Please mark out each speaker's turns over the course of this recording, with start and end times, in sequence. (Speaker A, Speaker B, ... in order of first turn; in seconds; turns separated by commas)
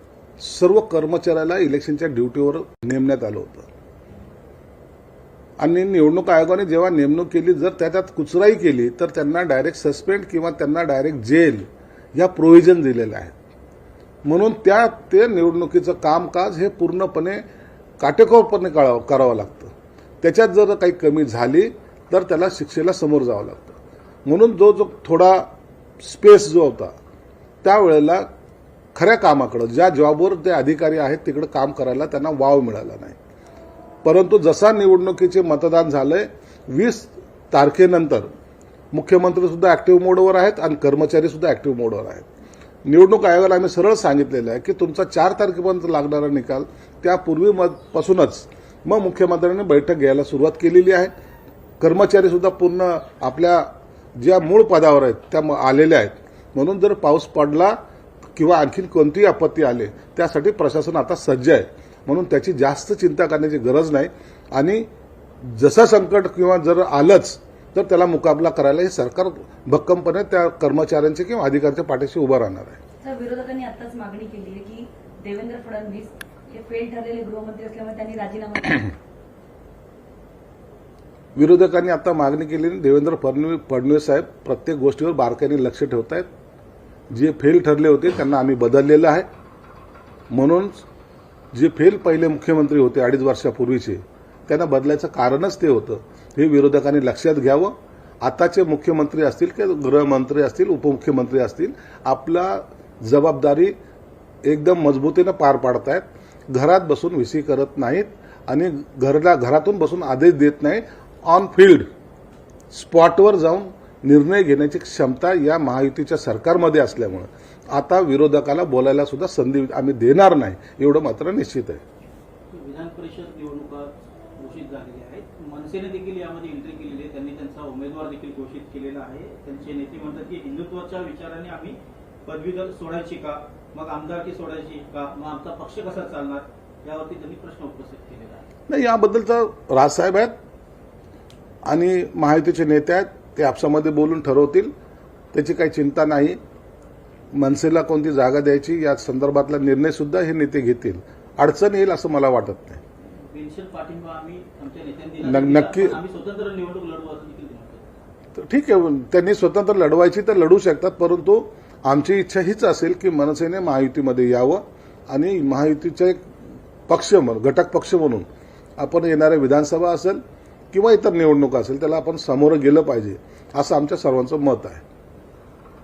Speaker A: 0.4-3.7, Speaker A: 5.6-13.3, Speaker A: 14.2-17.4, Speaker A: 18.0-25.5, Speaker A: 26.0-26.9, Speaker A: 27.6-28.3, Speaker A: 28.9-33.1, Speaker A: 34.0-38.3, Speaker A: 38.9-42.3, Speaker A: 42.8-51.1, Speaker A: 51.8-57.8, Speaker A: 58.4-64.9, Speaker A: 65.4-72.8, Speaker B: 73.0-78.9, Speaker A: 81.3-86.3, Speaker A: 87.1-89.3, Speaker A: 90.3-90.8, Speaker A: 91.5-103.8, Speaker A: 104.4-111.9, Speaker A: 112.7-121.8, Speaker C: 122.5-138.4, Speaker A: 138.7-140.3, Speaker A: 141.6-144.7, Speaker A: 145.3-146.4, Speaker A: 147.3-152.8, Speaker C: 153.1-157.9, Speaker A: 155.2-156.0, Speaker A: 158.3-166.2, Speaker A: 166.9-168.3, Speaker A: 168.8-174.8